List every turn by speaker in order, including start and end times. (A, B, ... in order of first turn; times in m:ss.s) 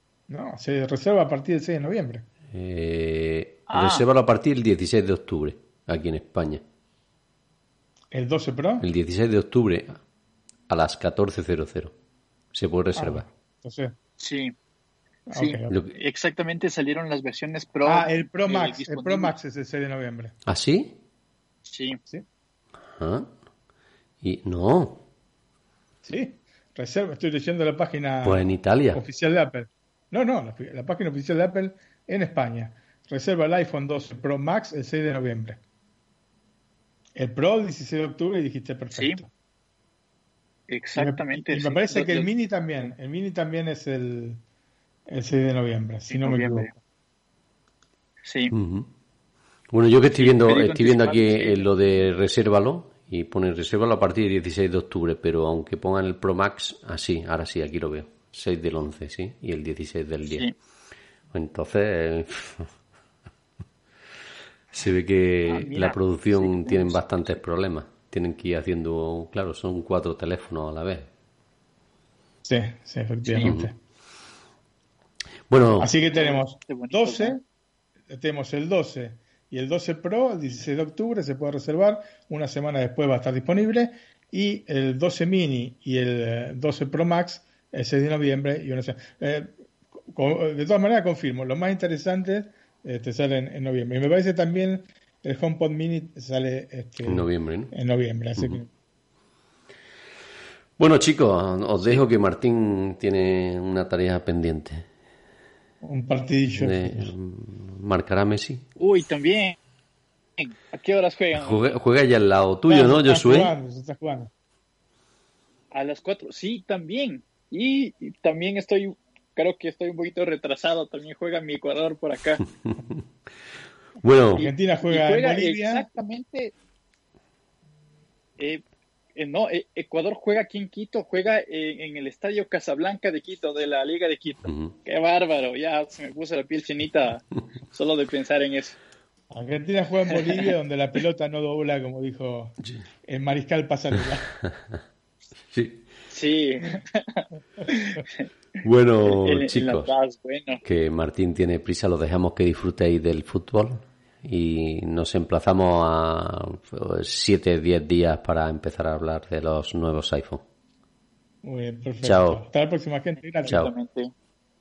0:00.3-0:02.3 A
0:02.5-0:06.6 B
0:03.7-0:04.0 C
0:08.1-0:08.9 A
0:08.8-0:10.0 B
0:10.7-0:11.9 B
0:12.5-0:13.3 B
0:13.0-0:14.0 A
0:14.2-0:14.5 C
0:15.3-0:15.8 A
0:15.4-0:19.3 C
0:17.8-0:20.4 A
0:20.5-0:21.0 B
0:21.7-0:22.0 C
0:22.9-0:23.3 B
0:24.2-0:25.0 B
0:26.0-0:35.6 A
0:28.2-0:29.0 B
0:37.2-0:39.3 A
0:38.9-0:39.2 C
0:40.7-0:42.3 C
0:41.0-0:44.4 A
0:45.1-0:46.8 A
0:46.1-0:46.7 C
0:48.2-0:48.5 C
0:48.5-0:48.9 B
0:49.7-1:00.5 B
0:50.2-0:51.7 C
1:00.2-1:00.5 C
1:01.3-1:02.7 B
1:04.7-1:11.1 B
1:05.5-1:07.3 C
1:12.4-1:13.8 A
1:13.3-1:13.6 C
1:13.4-1:13.7 B
1:15.5-1:15.9 B
1:15.8-1:17.4 A
1:16.1-1:17.4 C
1:18.1-1:29.5 A
1:30.1-1:38.7 A
1:37.0-1:37.7 B
1:40.8-1:44.9 B
1:45.8-1:47.1 A
1:46.5-1:48.7 B
1:48.8-1:49.6 C
1:50.4-1:51.6 C
1:51.3-1:53.5 B
1:52.7-1:54.3 A
1:55.7-2:02.4 C
2:02.7-2:03.0 B
2:04.0-2:04.5 B
2:04.4-2:05.9 A
2:04.4-2:06.5 C
2:08.4-2:08.6 C
2:09.2-2:18.8 C
2:14.5-2:14.7 B
2:19.3-2:24.3 A
2:20.1-2:20.4 C
2:25.5-2:25.9 B
2:26.1-2:28.3 C
2:28.6-2:29.9 B
2:29.0-2:30.6 C
2:30.6-2:40.5 B
2:41.4-2:43.6 A
2:42.0-2:42.4 B
2:43.4-2:44.1 C